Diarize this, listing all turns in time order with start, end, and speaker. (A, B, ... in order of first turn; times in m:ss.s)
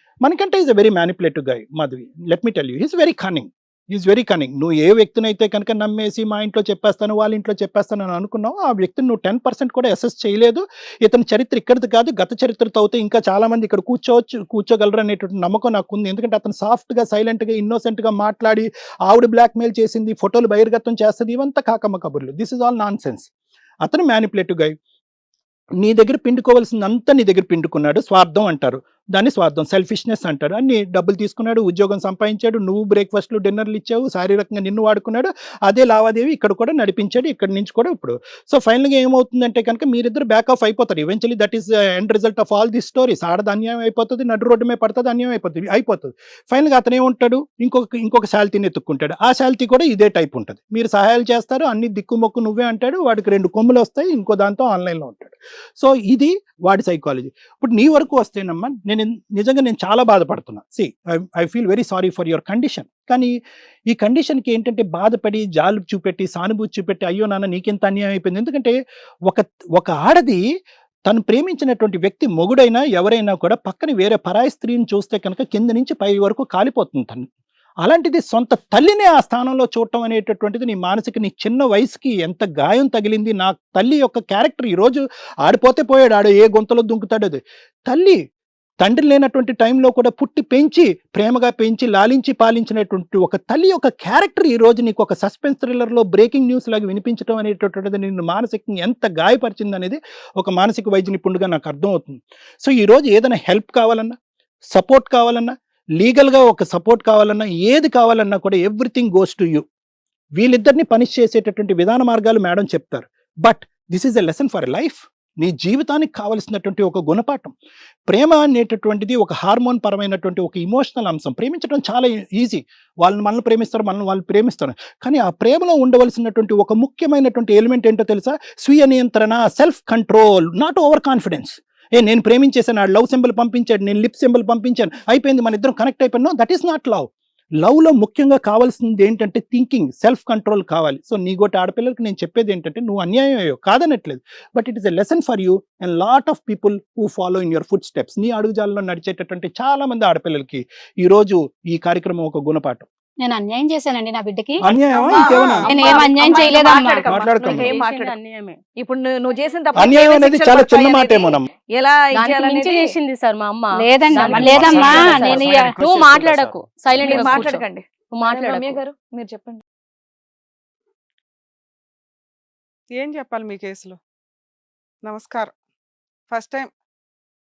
0:00.2-0:23.3 A
0:23.8-0:24.7 A
0:25.8-1:03.3 A
1:03.9-1:10.4 A
1:11.1-1:17.3 A
1:17.8-1:28.2 A
1:28.8-1:44.2 A
1:44.7-1:49.6 A
1:50.4-1:57.5 A
1:58.1-2:17.1 A
2:17.6-2:32.8 A
2:33.2-2:37.0 B
2:34.6-2:35.7 A
2:34.7-2:38.2 C
2:35.1-2:35.7 D
2:35.6-2:38.6 E
2:37.0-2:37.8 A
2:38.8-2:42.9 C
2:39.8-2:41.5 A
2:42.1-2:47.6 E
2:43.7-2:45.4 B
2:44.3-2:45.7 C
2:44.3-2:47.5 A
2:47.0-2:49.6 C
2:48.1-2:48.8 E
2:53.0-2:54.0 D
2:55.0-2:55.5 D
2:56.3-2:56.7 D